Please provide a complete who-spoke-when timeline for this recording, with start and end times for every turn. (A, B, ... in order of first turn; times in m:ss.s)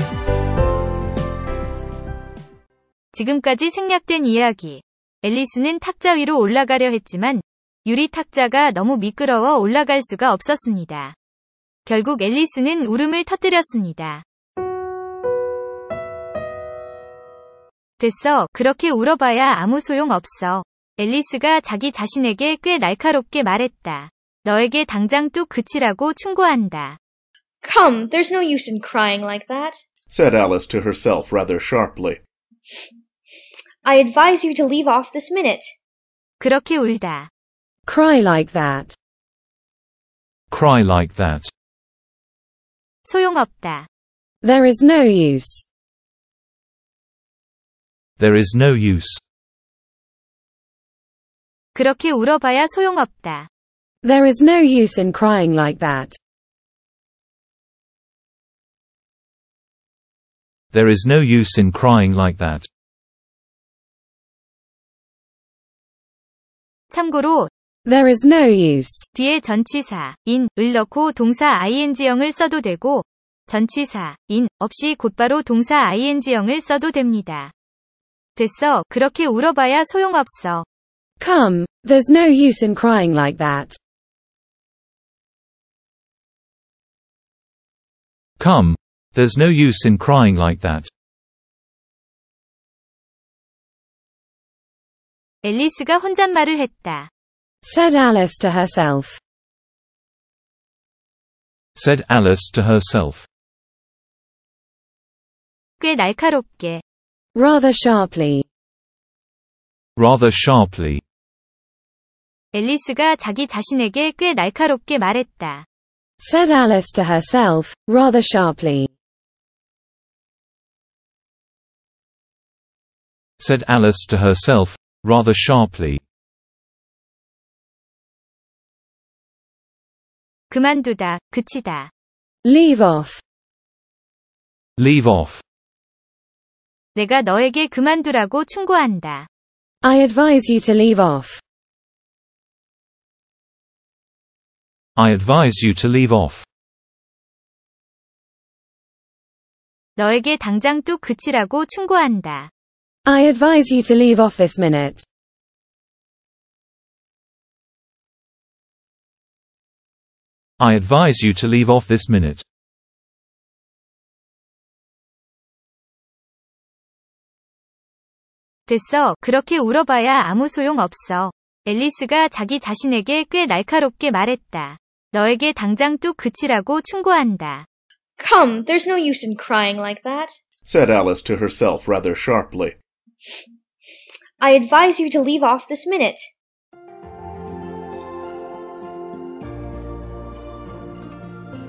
0:03.1-0:11.2 A
0:11.8-0:14.2 A
0:18.0-0:27.0 A
0:27.6-0:29.8 B
0:30.1-0:32.2 C
0:33.8-0:35.7 B
0:36.4-0:37.3 A
0:37.8-0:39.0 D
0:40.5-0:41.5 E
0:43.0-0:43.9 A
0:44.4-0:45.6 D
0:48.2-0:49.2 E
0:51.7-0:53.5 A
0:54.0-0:56.2 D
1:00.7-1:02.7 E
1:06.9-1:07.5 A
1:07.8-1:09.0 D
1:09.1-1:17.5 A
1:18.4-1:20.6 A
1:21.2-1:23.8 D
1:28.4-1:30.9 E
1:35.4-1:37.1 A
1:37.6-1:39.2 D
1:41.8-1:43.2 E
1:45.8-1:46.8 A
1:47.3-1:48.4 D
1:50.0-1:51.0 E
1:52.5-1:55.6 A
1:56.2-1:58.9 D
2:03.4-2:06.0 E
2:10.5-2:11.9 A
2:12.4-2:13.2 D
2:14.8-2:15.4 E
2:16.9-2:19.3 A
2:19.8-2:21.4 D
2:25.0-2:26.4 E
2:30.0-2:32.5 A
2:33.0-2:35.0 D
2:40.6-2:42.4 E
2:48.7-2:57.6 A
2:58.2-3:00.4 B
3:00.6-3:02.8 C
3:04.4-3:06.3 B